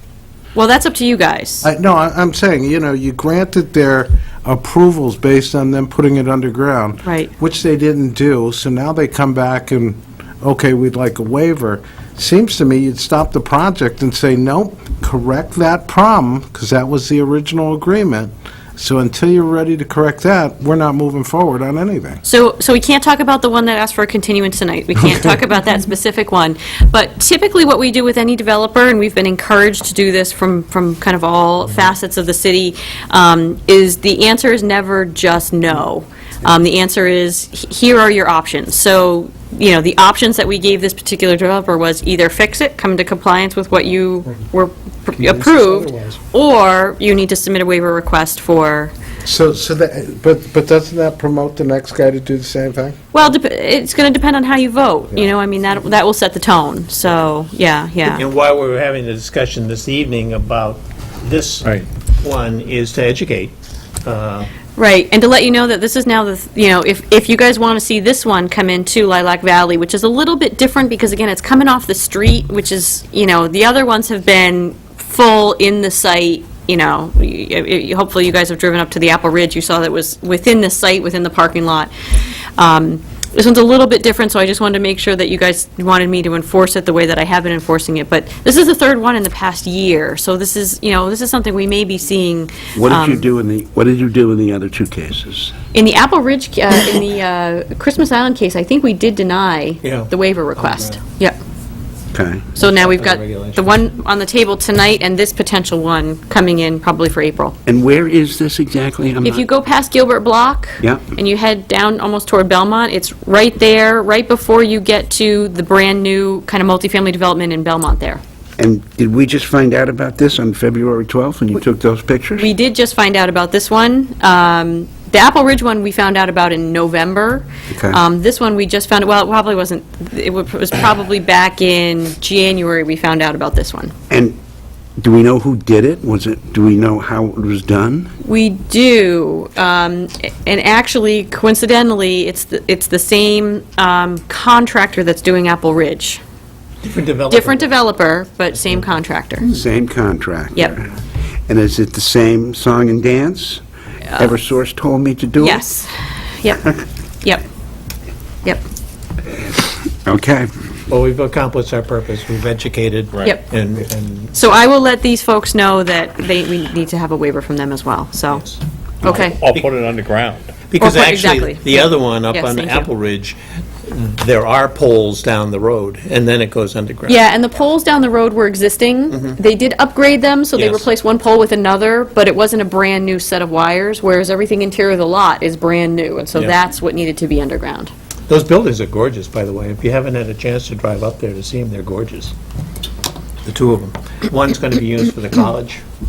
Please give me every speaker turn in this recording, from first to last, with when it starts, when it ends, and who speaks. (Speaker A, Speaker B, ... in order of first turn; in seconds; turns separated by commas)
Speaker A: 0.6-1.7, Speaker B: 1.6-22.2, Speaker A: 7.0-7.3, Speaker A: 22.2-48.9, Speaker B: 45.2-46.2, Speaker B: 49.2-53.0, Speaker A: 53.1-58.2, Speaker C: 58.1-64.5, Speaker A: 64.8-81.9, Speaker A: 82.6-93.3, Speaker D: 92.7-95.5, Speaker A: 95.7-101.4, Speaker C: 99.8-101.0, Speaker D: 102.1-102.5, Speaker A: 102.6-107.5, Speaker C: 102.6-103.7, Speaker D: 107.7-109.4, Speaker A: 109.2-118.2, Speaker D: 110.8-111.1, Speaker D: 118.6-122.5, Speaker A: 122.4-133.9, Speaker D: 127.7-128.0, Speaker D: 134.1-134.4, Speaker D: 135.0-138.1, Speaker A: 138.2-146.2, Speaker C: 146.8-147.7, Speaker A: 147.3-149.5, Speaker D: 149.5-150.9, Speaker D: 151.5-153.6, Speaker A: 154.1-154.3, Speaker D: 154.1-155.6, Speaker A: 155.4-157.4, Speaker D: 160.1-160.5, Speaker C: 160.9-164.4, Speaker A: 164.3-168.4, Speaker C: 168.3-168.6, Speaker A: 169.0-169.4, Speaker D: 169.0-170.6, Speaker C: 169.2-169.7, Speaker C: 170.7-177.2, Speaker A: 170.8-172.9, Speaker A: 177.1-187.9, Speaker C: 180.6-180.9, Speaker C: 188.3-192.3, Speaker C: 193.4-195.8